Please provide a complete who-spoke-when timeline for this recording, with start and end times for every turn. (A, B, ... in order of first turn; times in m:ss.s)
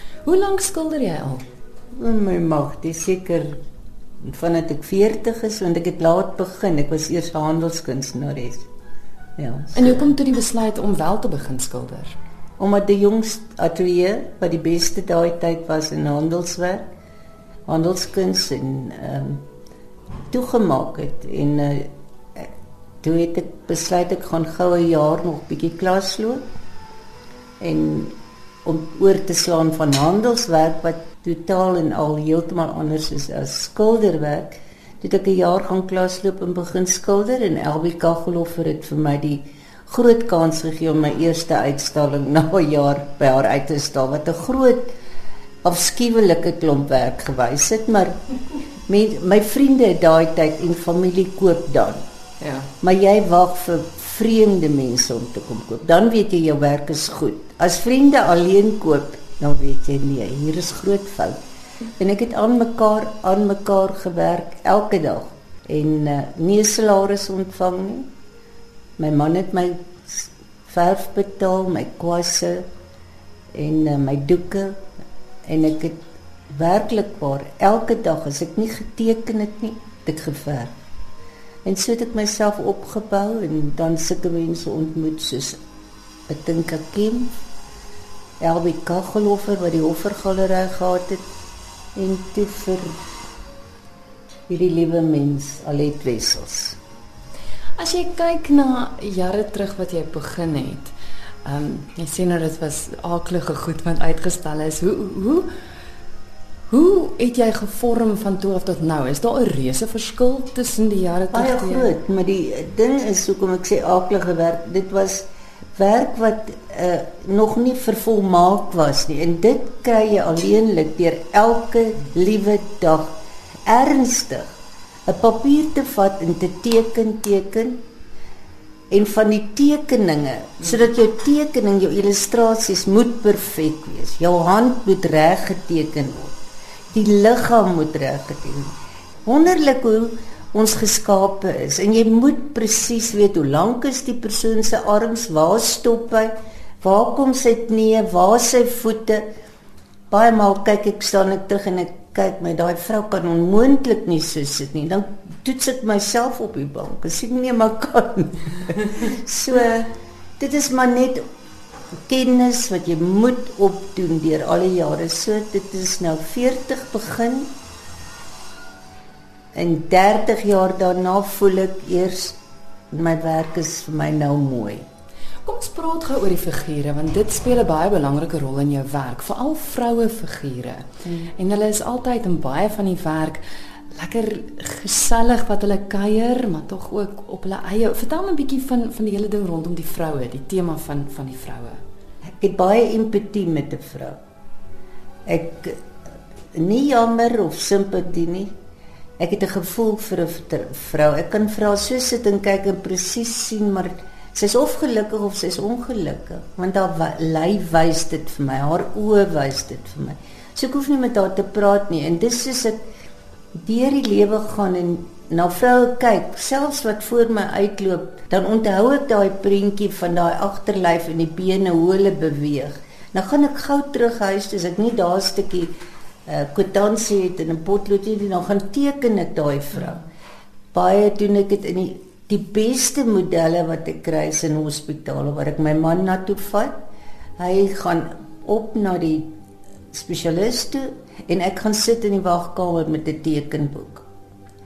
0:00.2-0:01.4 A
0:02.0-0:03.6 B
0:04.2-0:08.6 B
0:09.4-0:10.1 B
0:09.7-0:12.2 A
0:12.6-0:16.8 B
0:17.7-0:19.4 B
0:20.3-0:22.5 B
0:23.0-0:26.4 B
0:27.6-0:44.9 B
0:45.6-0:48.2 B
0:48.9-0:52.0 B
0:52.4-0:52.7 A
0:52.8-1:01.4 B
1:02.0-1:08.1 B
1:09.0-1:12.6 B
1:13.5-1:14.8 B
1:15.4-1:20.7 B
1:21.6-1:25.6 B
1:26.3-1:27.3 B
1:28.4-1:31.2 B
1:31.9-1:33.0 B
1:34.5-1:36.8 B
1:37.8-1:40.9 A
1:41.4-1:45.4 A
1:46.7-1:51.9 A
1:51.3-1:55.2 B
1:55.8-2:04.5 B
2:05.0-2:07.8 B
2:08.9-2:16.3 B
2:16.9-2:18.7 B
2:19.2-2:29.2 B
2:30.1-2:41.2 B
2:42.1-2:47.5 B
2:49.5-2:52.4 B
2:52.9-2:54.8 B
2:55.4-3:03.4 A
3:03.9-3:11.8 A
3:12.4-3:14.2 B
3:15.3-3:15.8 B
3:16.5-3:18.5 B
3:19.2-3:32.8 B
3:33.5-3:45.7 B
3:46.3-3:50.0 B
3:50.7-3:56.7 B
3:57.4-3:59.3 B
3:59.9-4:04.0 B